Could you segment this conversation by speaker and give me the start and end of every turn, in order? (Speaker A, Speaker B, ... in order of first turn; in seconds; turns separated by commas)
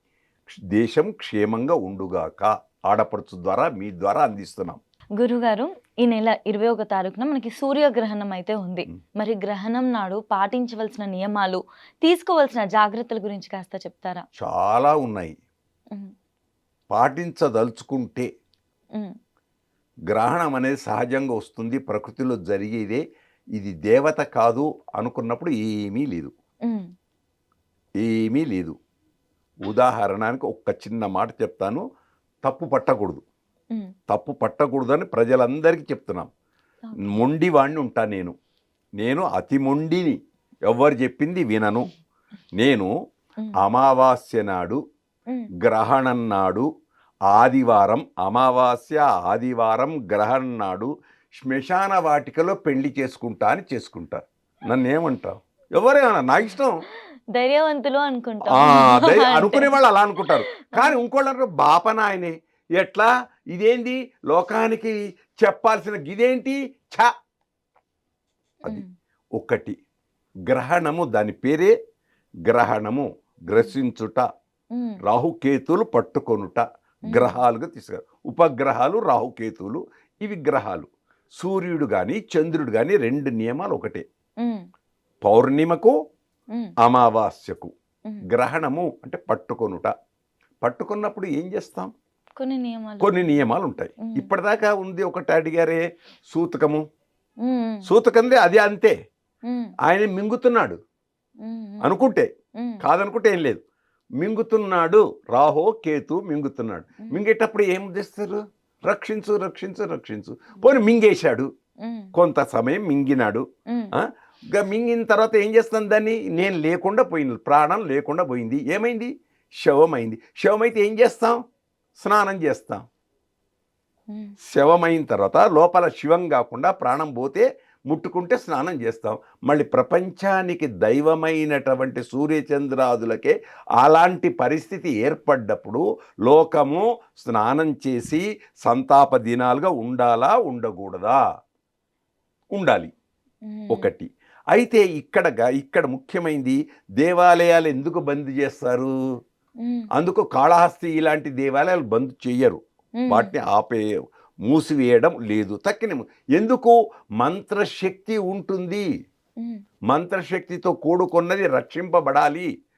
Speaker A: 0.5-4.8, Speaker B: 5.2-14.2, Speaker A: 14.4-15.4, Speaker A: 16.9-18.3, Speaker A: 20.1-23.0, Speaker A: 23.6-26.3, Speaker A: 28.0-28.8, Speaker A: 29.7-31.8, Speaker A: 32.4-33.2, Speaker A: 34.1-36.3, Speaker A: 37.1-38.4, Speaker A: 39.0-40.2, Speaker A: 40.7-41.9, Speaker A: 42.6-42.9, Speaker A: 43.6-44.8, Speaker A: 45.6-46.7, Speaker A: 47.3-56.8, Speaker B: 57.4-59.7, Speaker A: 58.5-67.1, Speaker A: 69.4-69.8, Speaker A: 70.5-71.7, Speaker A: 72.5-74.2, Speaker B: 74.7-75.0, Speaker A: 75.0-84.0, Speaker B: 77.1-77.4, Speaker A: 85.2-85.9, Speaker A: 86.8-87.7, Speaker A: 88.3-89.9, Speaker A: 90.6-91.9, Speaker B: 92.4-93.2, Speaker A: 93.0-96.8, Speaker B: 94.0-94.3, Speaker B: 97.4-97.8, Speaker A: 97.9-98.9, Speaker B: 99.5-99.7, Speaker A: 99.9-100.8, Speaker B: 101.4-101.9, Speaker A: 101.8-102.3, Speaker A: 102.8-103.6, Speaker A: 104.2-111.5, Speaker B: 111.8-112.1, Speaker A: 112.1-113.5, Speaker A: 114.0-119.1, Speaker A: 119.6-121.4, Speaker A: 122.0-122.8, Speaker A: 124.5-141.2, Speaker A: 142.6-142.9, Speaker B: 143.5-143.9, Speaker A: 143.7-148.9, Speaker A: 150.0-153.9, Speaker B: 153.0-153.3, Speaker A: 154.5-158.9, Speaker A: 159.9-162.5